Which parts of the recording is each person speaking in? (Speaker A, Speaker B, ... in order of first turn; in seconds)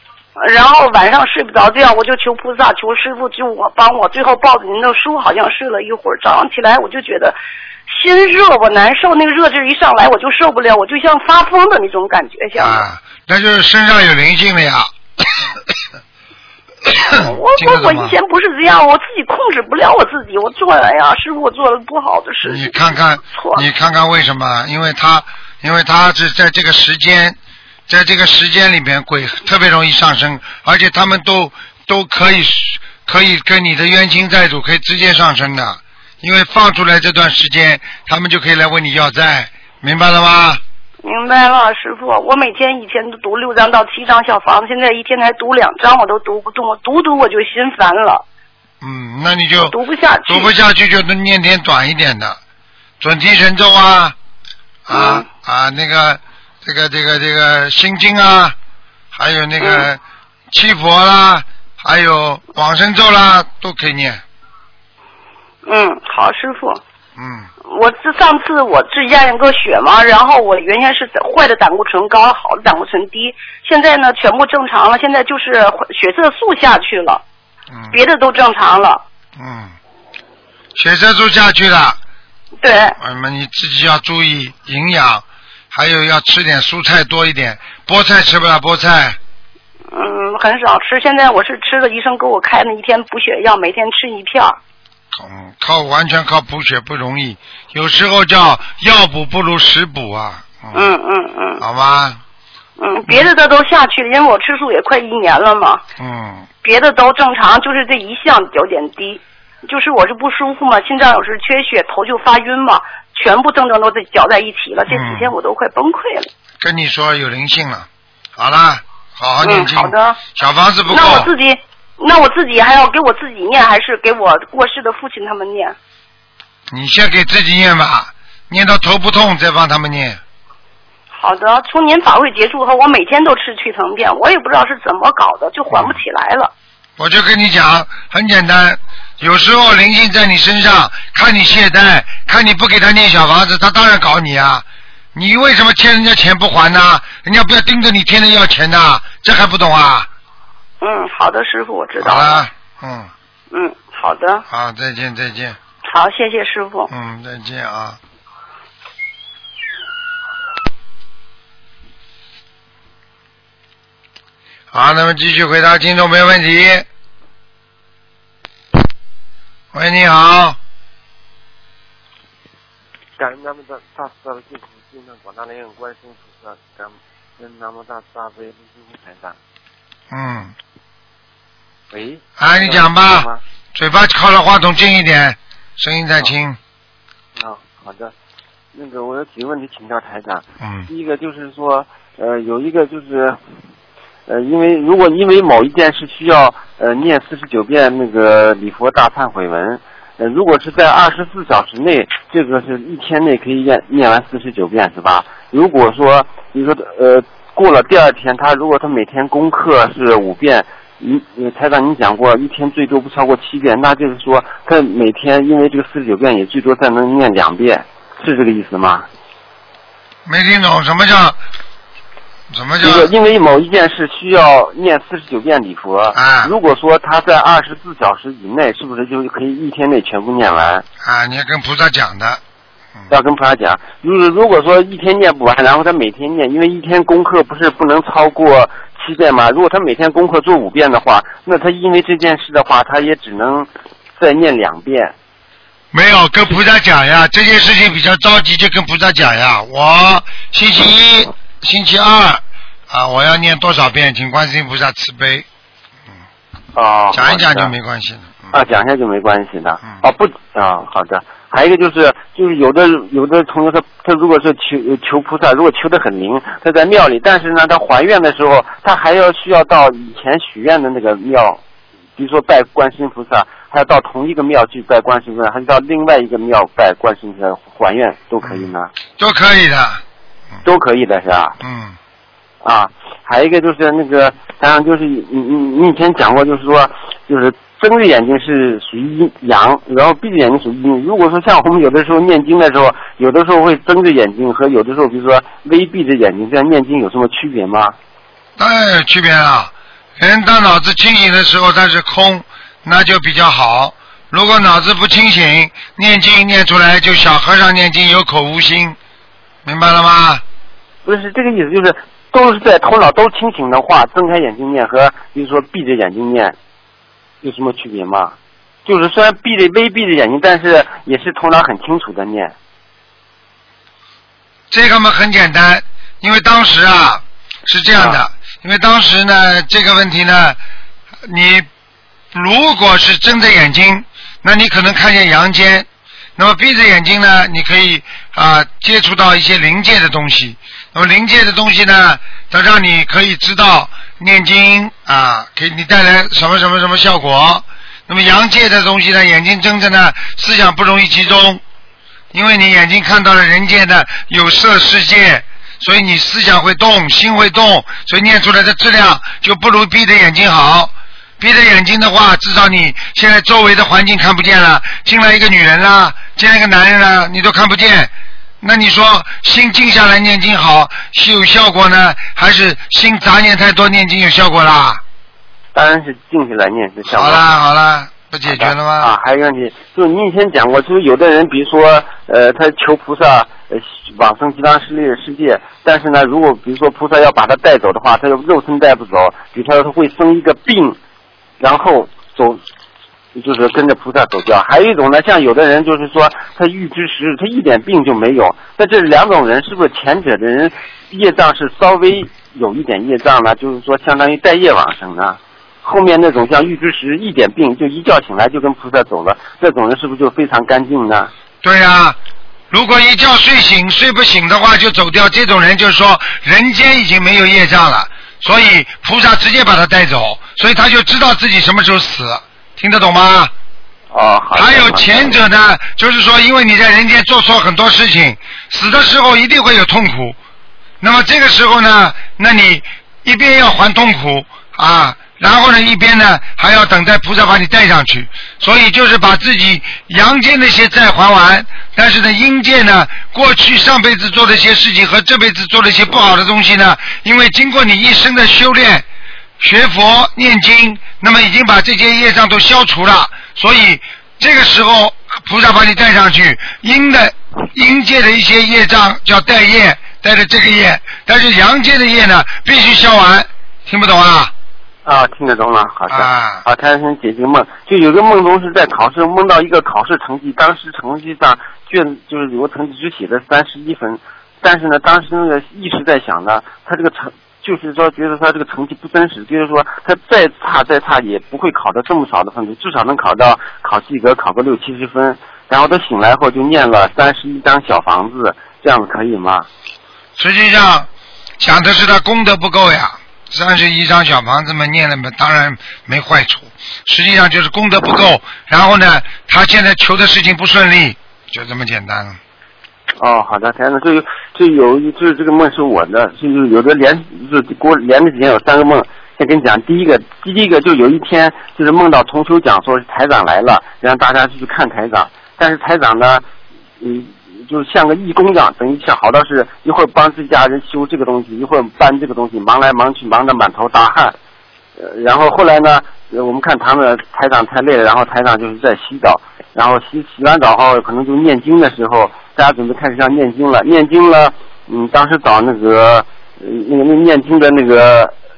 Speaker A: 0.4-7.4, 7.9-12.8, 16.9-23.6, 41.0-48.2, 49.6-50.5, 54.9-55.3, 59.6-59.9, 65.7-66.8, 67.7-77.2, 77.9-79.0, 82.6-83.0, 89.9-94.6, 100.7-101.6, 102.8-105.8, 106.6-116.3, 119.4-120.2, 120.9-125.8, 131.1-136.5, 150.8-152.4, 153.5-154.4, 155.9-156.9
Speaker B: 12.6-14.9, 16.9-18.1, 22.4-27.4, 27.9-40.6, 48.8-49.8, 50.3-52.4, 53.0-54.1, 54.9-58.5, 59.1-60.0, 60.5-64.2, 67.2-67.5, 79.4-79.8, 80.8-82.0, 83.0-89.2, 95.1-100.9, 101.6-102.2, 106.0-106.5, 114.9-115.3, 116.6-121.3, 126.7-130.2, 135.7-136.0, 137.0-150.1, 152.0-153.1, 154.5-155.6, 156.9-158.0, 164.7-166.9, 169.7-170.6, 180.1-180.5, 182.4-186.6, 190.6-190.9, 220.3-221.4, 222.5-223.1, 226.2-226.5, 231.0-232.4, 245.9-255.5, 257.1-258.6, 278.4-280.0, 281.6-282.0, 298.6-309.0, 309.6-310.4, 324.7-330.6, 331.2-331.7, 332.3-351.6, 352.3-375.0, 377.1-379.1, 411.6-412.2, 412.7-423.5, 424.6-430.4, 431.0-449.1, 449.6-464.5, 466.1-466.6, 490.4-491.1, 491.6-502.4
Speaker C: 173.2-179.4, 181.9-183.4, 187.4-188.1, 188.7-193.4, 194.3-219.1, 222.8-230.8, 233.1-245.1, 256.7-257.7, 258.5-271.6, 272.2-278.9, 280.6-281.6, 282.6-298.0, 311.1-316.6, 317.4-318.4, 318.9-322.5, 328.0-328.2, 375.7-377.4, 378.5-391.0, 391.6-392.6, 393.4-411.3, 424.1-425.4, 465.1-489.7, 503.2-516.4, 517.0-524.4, 525.0-538.3